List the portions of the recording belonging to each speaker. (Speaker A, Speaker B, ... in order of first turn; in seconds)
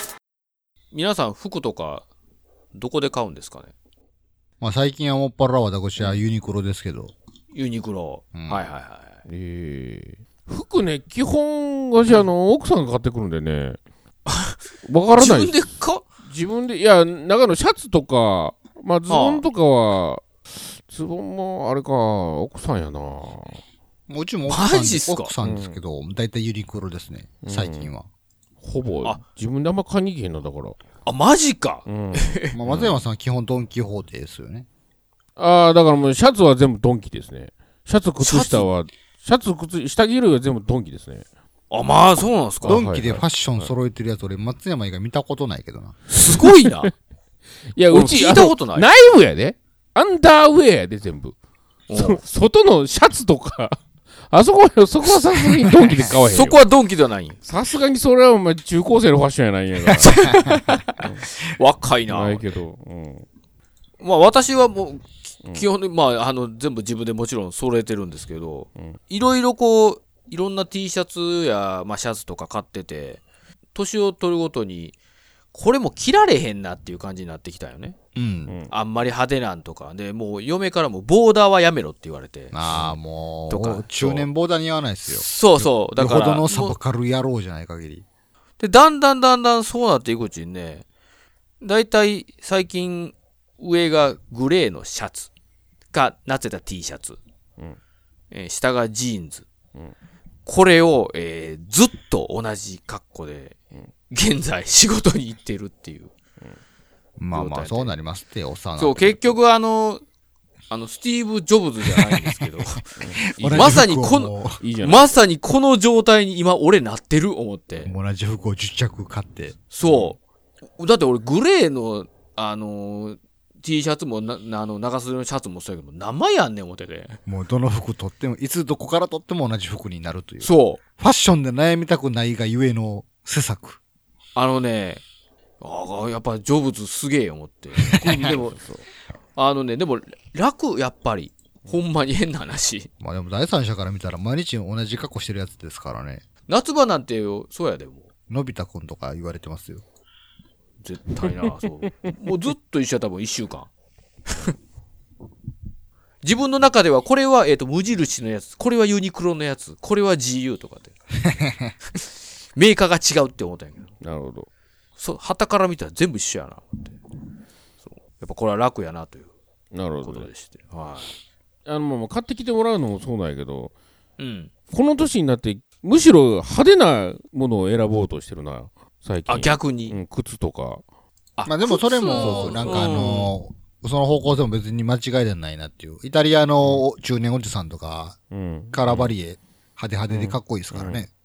Speaker A: 0.9-2.0, 2.7-3.7, 7.5-9.2, 14.3-14.6, 15.2-16.1, 19.1-19.4, 24.5-25.3, 31.1-32.5, 38.2-38.7, 41.7-42.8, 46.1-46.9, 47.9-48.9, 51.9-52.2, 56.2-57.4, 60.0-62.4, 64.0-73.2, 73.8-75.0, 75.5-78.0, 78.7-84.3, 85.1-86.8, 88.6-90.8, 91.6-95.3, 95.9-97.2, 98.3-99.5, 100.5-103.5, 104.1-106.1, 107.3-107.9, 108.8-110.0, 110.7-112.8, 113.5-117.9, 119.7-120.2, 120.8-127.2, 130.4-130.8, 134.3-135.0, 135.6-138.6, 139.3-142.9, 146.5-148.1, 150.8-153.7, 156.2-160.9, 162.6-163.9, 165.0-167.0, 167.9-169.3, 170.0-171.1, 174.2-174.5, 179.3-180.0, 181.4-183.3
Speaker B: 4.6-7.1, 8.3-8.6, 24.1-28.1, 32.5-34.7, 42.6-46.0, 78.1-78.5, 82.5-88.0, 107.2-109.2, 113.2-114.6, 117.8-119.5, 127.3-133.8, 143.0-146.2, 148.3-149.8, 161.5-161.7, 181.4-188.2, 188.7-191.1
Speaker C: 9.3-13.8, 14.8-15.7, 16.2-23.6, 25.4-25.8, 27.4-27.9, 28.6-30.8, 31.9-33.0, 35.4-41.2, 42.6-43.7, 47.7-51.3, 51.9-56.6, 57.4-60.2, 61.0-61.2, 62.1-63.2, 113.0-113.9, 114.6-115.1, 119.9-120.1, 138.3-138.8, 164.0-164.5, 169.7-170.3, 171.7-173.7, 174.7-180.8, 182.2-183.1, 188.3-189.1, 190.1-191.1